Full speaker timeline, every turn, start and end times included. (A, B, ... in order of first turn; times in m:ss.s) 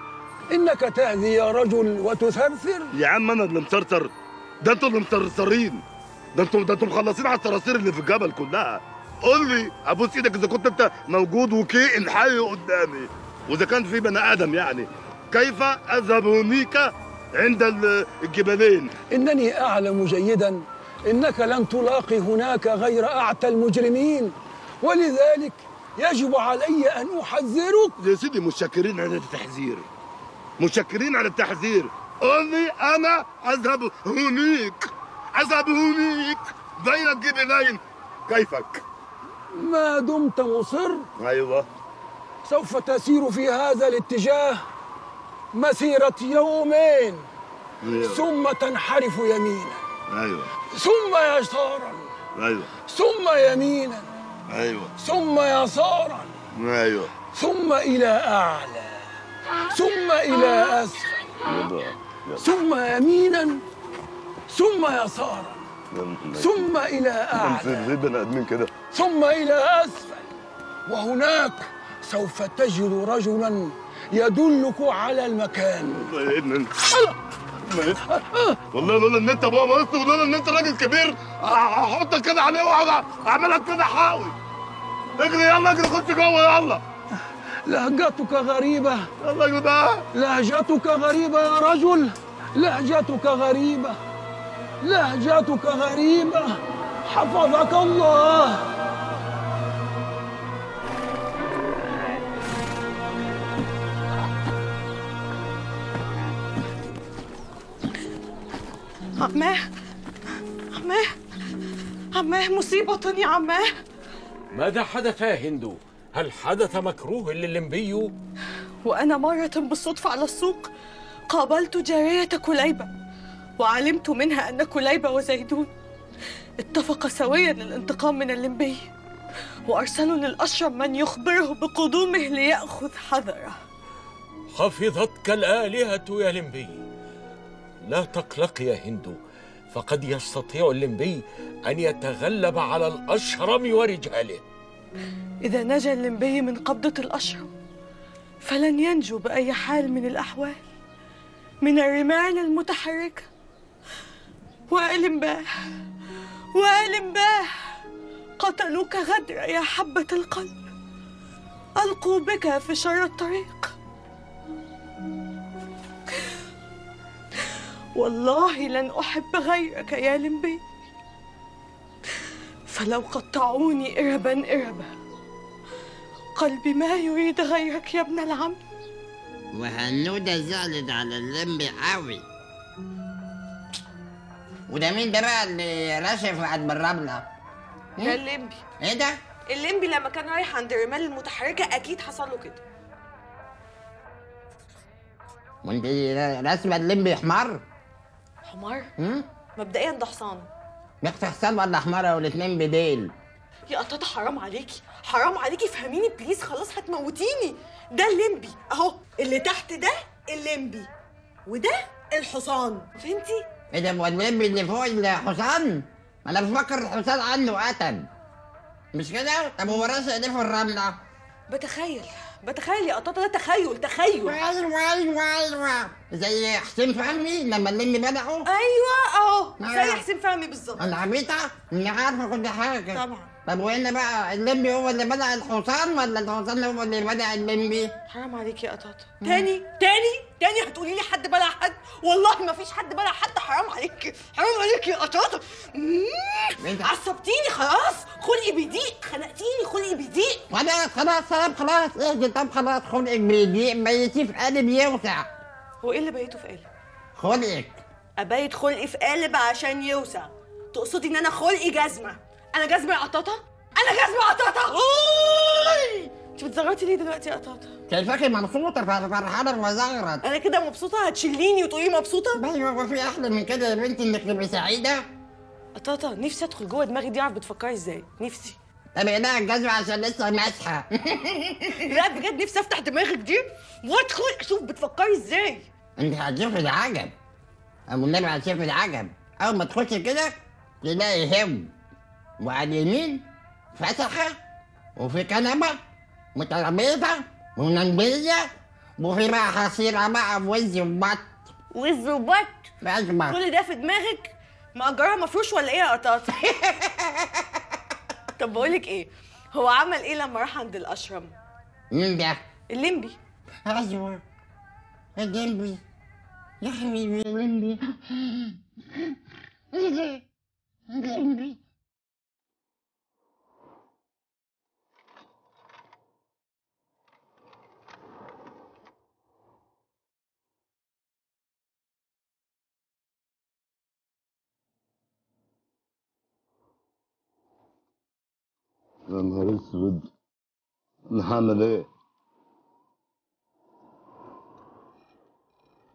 0:00.5-0:02.9 A
0:02.9-0:05.8 B
0:06.4-0:18.9 B
0:19.1-0:27.9 A
0:28.0-0:29.9 B
0:30.6-0:38.8 B
0:39.6-0:41.1 A
0:41.2-0:41.7 B
0:42.4-0:44.6 A
0:45.5-0:47.3 A
0:47.8-0:48.2 B
0:48.0-0:49.8 A
0:50.1-0:50.5 B
0:50.8-0:52.1 A
0:52.4-0:52.7 B
0:52.9-0:54.1 A
0:54.5-0:54.9 B
0:55.0-0:56.4 A
0:56.6-0:57.1 B
0:57.3-0:59.0 A
0:59.7-1:01.5 A
1:01.4-1:02.5 B
1:02.4-1:03.6 A
1:04.5-1:05.7 A
1:05.9-1:06.7 B
1:06.3-1:07.9 A
1:07.3-1:08.7 B
1:08.9-1:10.3 A
1:10.9-1:16.1 A
1:16.0-1:16.9 B
1:17.7-1:18.0 B
1:18.0-1:18.6 A
1:18.7-1:24.4 B
1:25.2-1:26.8 B
1:27.7-1:29.1 A
1:29.2-1:30.0 B
1:30.1-1:34.0 A
1:34.8-1:38.6 A
1:49.2-1:49.6 C
1:50.8-1:51.2 C
1:52.2-1:53.7 C
1:54.5-1:58.1 D
1:58.8-2:00.7 C
2:01.3-2:02.9 C
2:03.6-2:05.7 C
2:06.6-2:08.9 C
2:09.7-2:13.6 C
2:14.6-2:16.8 D
2:17.9-2:19.2 D
2:19.7-2:24.4 D
2:25.4-2:27.5 C
2:28.4-2:30.6 C
2:31.6-2:33.3 C
2:34.7-2:35.4 C
2:36.6-2:37.5 C
2:38.4-2:40.5 C
2:41.8-2:43.7 C
2:48.0-2:50.6 C
2:52.7-2:54.9 C
2:56.4-2:58.6 C
2:59.5-3:02.2 E
3:04.7-3:07.3 E
3:08.0-3:08.6 C
3:08.8-3:09.2 E
3:09.5-3:12.6 C
3:15.6-3:17.6 E
3:18.4-3:18.9 C
3:19.0-3:19.2 E
3:19.6-3:20.5 C
3:21.0-3:23.1 E
3:23.7-3:30.9 C
3:31.5-3:33.4 C
3:33.7-3:38.1 E
3:38.9-3:41.0 E
3:41.5-3:44.4 C
3:44.3-3:48.5 E
3:48.5-3:50.8 C
3:49.6-3:50.0 E
3:50.8-3:57.9 E
3:52.9-3:53.3 C
3:58.1-4:10.4 C
4:06.6-4:06.9 E
4:10.5-4:15.3 E
4:15.8-4:16.7 C
4:17.2-4:17.8 E
4:18.2-4:27.7 C
4:27.9-4:30.2 E
4:30.2-4:32.4 C
4:32.4-4:35.0 E
4:35.8-4:38.6 C
4:39.0-4:41.8 E
4:41.7-4:45.7 C
4:46.0-4:47.1 E
4:47.9-4:51.7 E
4:52.4-4:54.4 E
4:55.0-4:55.8 E
4:56.4-5:01.4 E
5:01.7-5:02.7 C
5:02.8-5:03.4 E
5:03.3-5:06.5 C
5:06.4-5:07.4 E
5:08.4-5:11.3 C
5:11.9-5:12.4 E
5:12.7-5:13.2 C
5:13.7-5:14.2 E
5:15.2-5:15.8 E
5:16.6-5:18.6 E
5:19.7-5:20.2 E
5:20.9-5:21.6 E
5:39.1-5:40.1 B
5:41.1-5:41.9 B